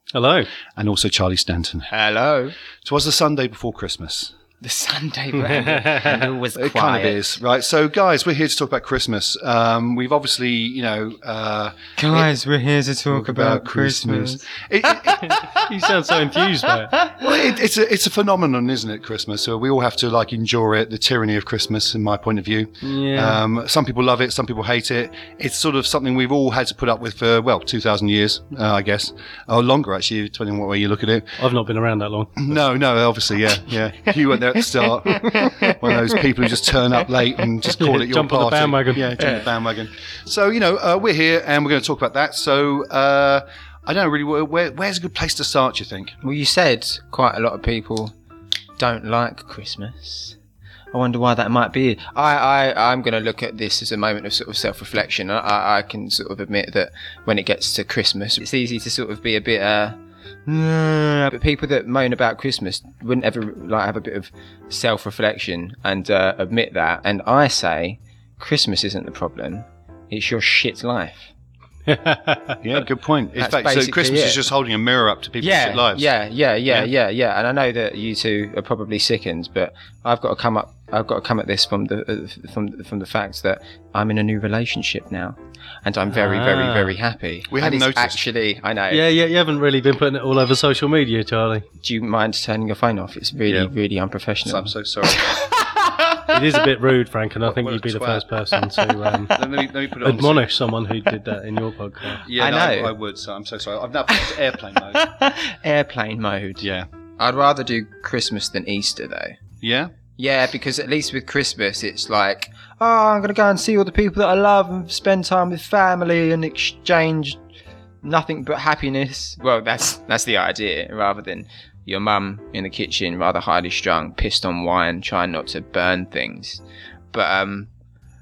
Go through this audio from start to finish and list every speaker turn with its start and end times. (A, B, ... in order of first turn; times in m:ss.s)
0:00.1-0:00.5 A
0:00.8-0:01.9 B
0:01.9-0:02.6 C
0:02.8-0:04.4 B
0:04.6-0:07.2 C
0:05.5-0:06.2 A
0:06.6-0:12.3 B
0:12.0-0:15.2 C
0:13.1-0:15.6 B
0:15.2-0:17.0 A
0:17.1-0:31.3 B
0:22.8-0:23.4 A
0:31.4-0:32.6 A
0:32.4-0:46.2 B
0:34.3-0:36.8 C
0:37.8-0:39.4 A
0:39.2-0:39.5 C
0:46.2-0:48.1 C
0:48.8-0:50.4 C
0:50.9-1:11.3 C
1:11.9-1:12.6 A
1:12.6-1:16.0 B
1:13.4-1:14.5 C
1:15.4-1:29.0 C
1:26.2-1:26.9 A
1:27.5-1:28.2 B
1:28.9-1:31.7 A
1:31.8-1:36.4 C
1:34.5-1:35.3 B
1:36.3-1:39.4 A
1:37.5-1:38.2 B
1:39.3-1:40.4 B
1:40.0-1:42.2 A
1:42.2-1:45.1 B
1:42.4-1:43.0 C
1:44.1-1:46.6 C
1:46.6-1:46.9 B
1:47.2-1:49.4 C
1:49.6-1:49.9 B
1:50.2-1:57.4 C
1:58.0-2:07.7 C